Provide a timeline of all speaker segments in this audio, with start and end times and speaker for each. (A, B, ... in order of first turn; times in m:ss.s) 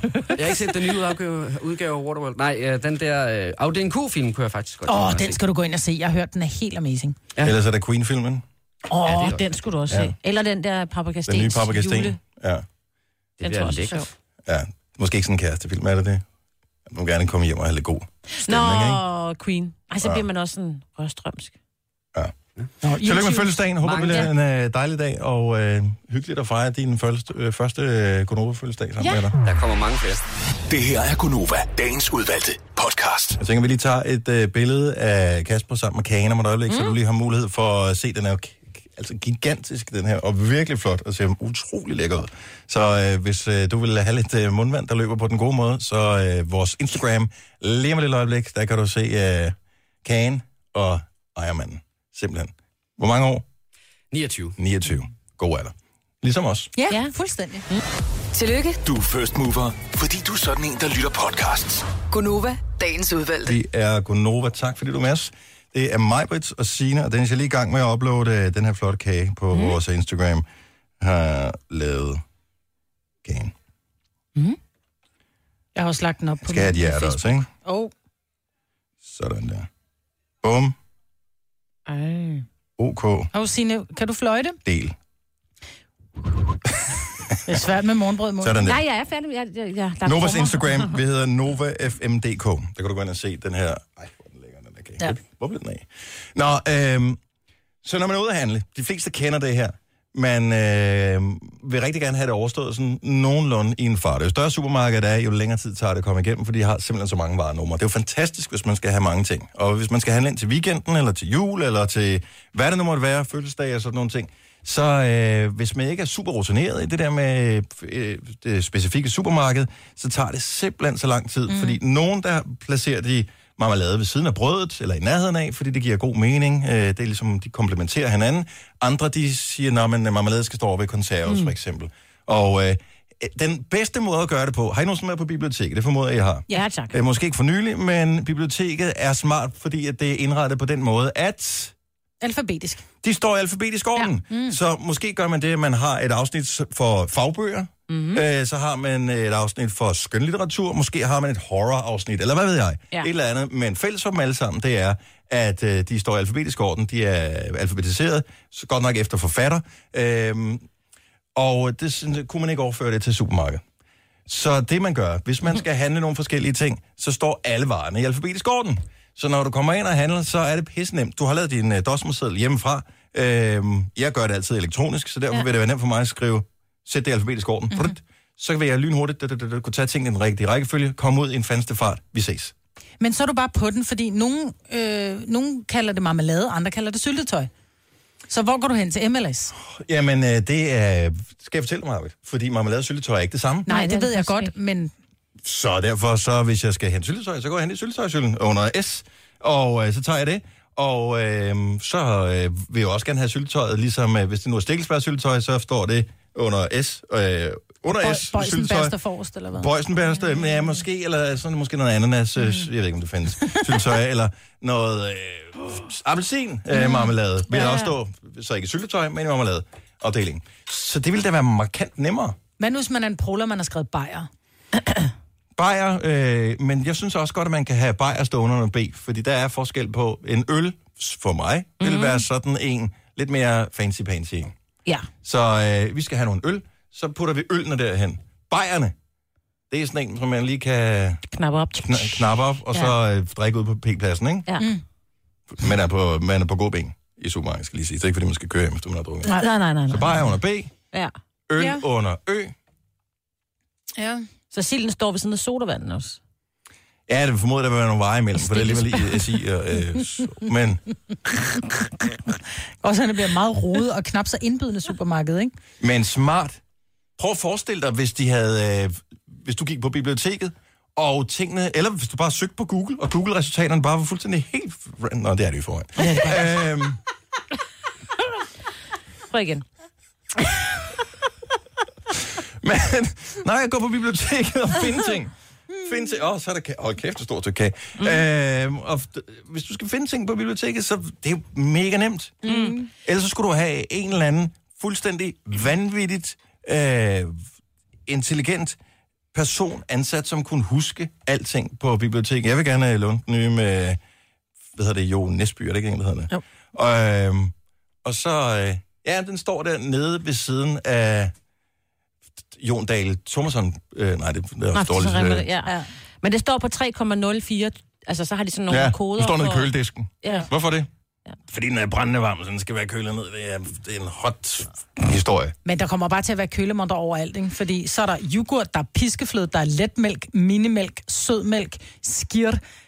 0:00.4-0:05.4 A
0:04.8-0:07.2 B
0:07.4-0:08.4 C
0:08.9-0:09.3 B
0:09.0-0:09.4 A
0:09.0-0:12.2 D
0:09.9-0:10.2 C
0:11.3-0:12.6 C
0:13.4-0:14.1 D
0:13.4-0:14.0 A
0:14.4-0:16.2 C
0:16.9-0:19.0 C
0:18.4-0:21.5 D
0:22.8-0:23.5 B
0:22.9-0:29.4 C
0:23.8-0:24.3 A
0:29.4-0:30.2 A
0:30.7-0:33.4 E
0:33.4-0:53.4 C
0:36.7-0:37.0 D
0:54.1-0:54.5 A
0:54.6-0:56.7 C
0:56.7-0:57.6 B
0:58.3-0:58.8 F
0:58.8-1:02.0 E
1:02.1-1:03.6 F
1:03.4-1:10.4 C
1:09.5-1:09.8 D
1:11.0-1:12.2 C
1:13.2-1:13.5 C
1:15.7-1:17.9 B
1:16.4-1:17.5 C
1:19.0-1:19.7 C
1:20.4-1:20.8 C
1:21.9-1:22.4 D
1:22.8-1:23.3 C
1:23.3-1:24.6 B
1:24.6-1:25.0 C
1:26.8-1:27.4 C
1:27.5-1:28.7 B
1:28.4-1:28.8 C
1:28.6-1:30.9 D
1:30.0-1:37.2 C
1:37.8-2:21.7 C
2:01.5-2:01.8 B
2:16.5-2:17.0 D
2:22.2-2:22.8 B
2:23.0-2:40.6 C
2:24.3-2:24.6 B
2:27.9-2:28.2 D
2:41.4-2:43.6 C
2:44.3-3:02.5 C
2:57.7-2:58.0 B
3:03.0-3:07.5 B
3:08.3-3:09.5 B
3:09.6-3:13.7 C
3:13.7-3:14.9 B
3:13.7-3:14.5 D
3:15.4-3:29.0 C
3:27.9-3:29.7 B
3:29.5-3:42.4 C
3:36.8-3:37.9 D
3:42.6-3:44.3 B
3:45.6-3:54.5 C
3:51.8-3:52.2 D
3:55.2-3:58.9 C
3:59.7-4:01.3 C
4:01.3-4:02.9 D
4:01.8-4:04.5 C
4:05.5-4:10.7 C
4:09.4-4:10.2 D
4:11.5-4:12.5 C
4:11.6-4:11.8 B
4:14.0-4:14.2 B
4:14.5-4:16.2 D
4:17.1-4:20.8 C
4:18.4-4:19.3 D
4:22.8-4:25.5 B
4:25.8-4:26.6 C
4:27.2-4:37.0 C
4:36.0-4:36.4 B
4:39.3-4:39.6 D
4:42.6-4:45.3 C
4:45.8-4:52.4 C
4:48.0-4:48.2 D
4:52.4-4:52.9 B
4:52.4-4:52.8 D
4:53.0-4:57.4 C
4:58.1-4:58.8 C
4:59.3-5:04.0 C
5:04.7-5:07.5 C
5:08.0-5:11.3 C
5:12.5-5:15.5 C
5:14.7-5:19.7 D
5:18.7-5:20.9 C
5:20.2-5:20.5 D
5:21.5-5:25.6 C
5:25.6-5:32.6 B